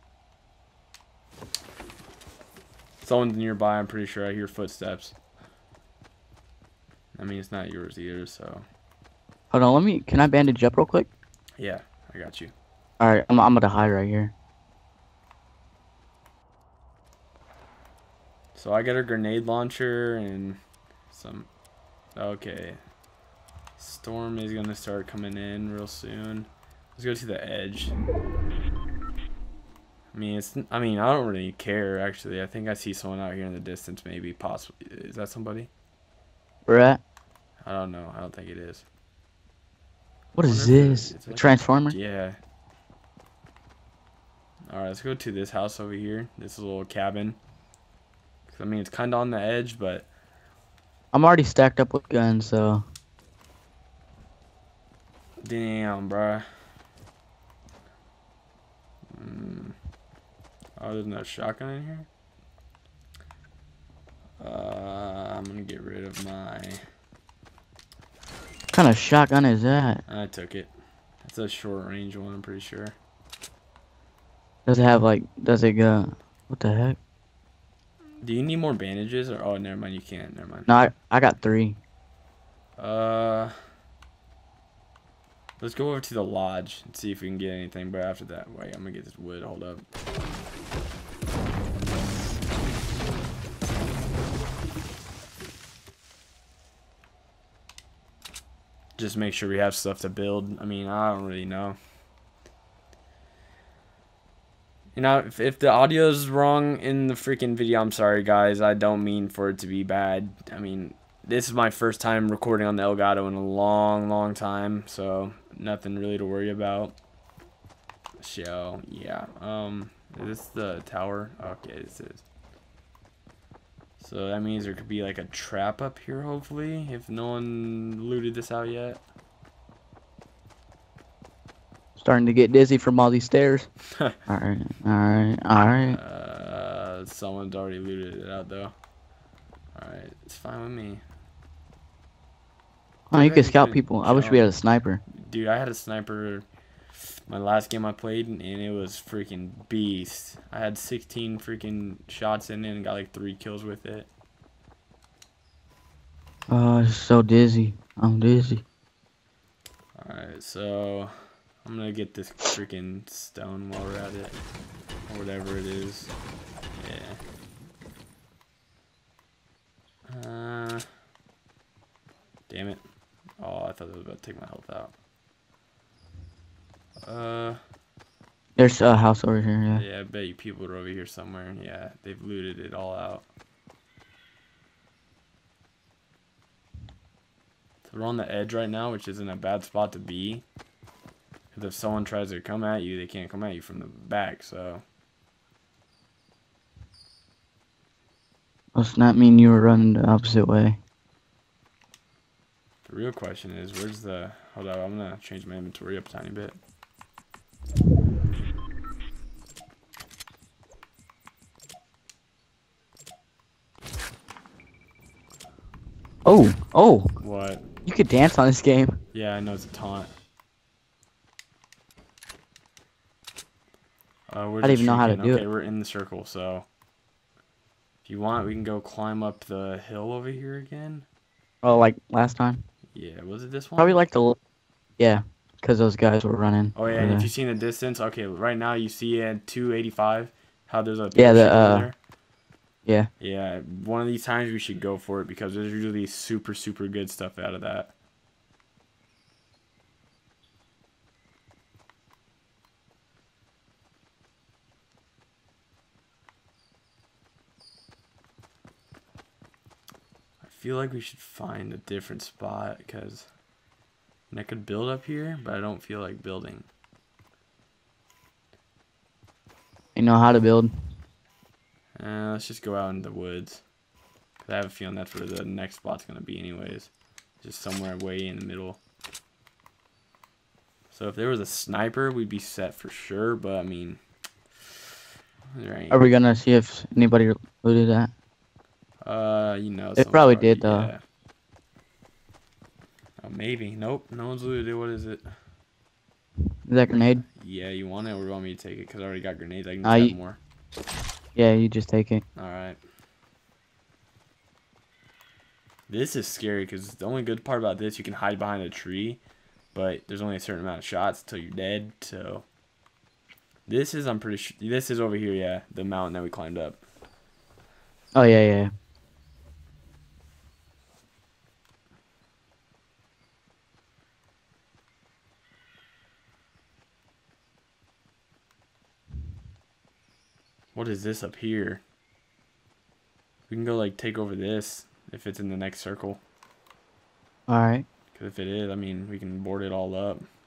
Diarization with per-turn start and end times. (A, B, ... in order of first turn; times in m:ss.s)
0:03.0-0:05.2 A
0:07.2-0:08.7 A
0:09.5-0:11.1 B
0:11.6-0:12.5 A
0:13.0-0:14.3 B
0:18.6-0:20.6 A
0:21.1-0:21.5 A
0:22.2-0:22.8 A
0:23.8-0:28.0 A
0:30.1-0:35.7 A
0:36.7-0:37.0 B
0:37.6-0:38.9 A
0:40.4-0:42.0 B
0:40.4-0:42.4 A
0:44.7-0:47.4 A
0:48.5-0:50.1 A
0:51.1-0:52.8 B
0:55.4-0:56.4 A
0:59.1-0:59.8 A
1:00.8-1:02.1 A
1:04.4-1:06.8 A
1:08.7-1:10.0 B
1:10.1-1:13.0 A
1:14.7-1:17.0 B
1:18.2-1:20.7 A
1:20.7-1:21.8 B
1:22.8-1:23.5 A
1:25.6-1:29.8 A
1:39.0-1:41.8 A
1:45.0-1:57.0 A
1:58.2-2:02.2 A
2:04.0-2:09.0 A
2:12.0-2:13.7 B
2:14.3-2:16.0 B
2:15.9-2:18.7 A
2:19.8-2:21.0 A
2:23.1-2:25.0 B
2:23.1-2:24.4 A
2:25.1-2:26.5 A
2:27.3-2:34.1 A
2:36.5-2:38.6 B
2:40.0-2:41.1 A
2:41.6-2:44.4 A
2:45.1-2:46.1 A
2:46.8-2:47.2 A
2:50.1-2:50.8 A
2:52.5-2:52.8 A
2:53.4-2:54.9 A
2:57.1-2:57.6 A
2:58.6-2:59.8 B
2:59.8-3:03.2 A
3:07.8-3:10.4 A
3:11.5-3:14.8 A
3:18.8-3:20.8 B
3:22.8-3:26.6 A
3:36.2-3:37.1 B
3:37.2-3:37.6 A
3:37.9-3:39.0 B
3:39.1-3:40.1 A
3:44.3-3:46.7 A
3:44.6-3:45.5 B
3:48.0-3:51.1 A
3:51.6-3:52.6 B
3:52.9-3:54.0 A
3:53.8-3:54.4 B
3:55.0-3:57.3 B
3:56.8-4:02.0 A
4:01.2-4:01.9 B
4:03.2-4:07.9 A
4:20.4-4:23.3 A
4:24.3-4:26.7 A
4:30.0-4:30.7 B
4:32.0-4:33.6 A
4:34.4-4:36.9 A
4:37.4-4:38.8 A
4:40.9-4:44.0 A
4:45.6-4:46.0 A
4:45.9-4:48.1 B
4:49.0-4:51.0 A
4:50.0-4:50.9 B
4:53.2-4:55.3 A
4:56.7-4:57.2 B
4:57.3-5:00.4 A
4:59.8-5:00.2 B
5:01.4-5:02.2 B
5:02.4-5:02.8 A
5:05.9-5:09.2 A
5:09.7-5:12.4 A
5:13.7-5:16.8 A
5:18.1-5:18.7 B
5:30.7-5:31.8 A
5:33.5-5:36.2 A
5:37.5-5:37.8 B
5:38.1-5:40.2 A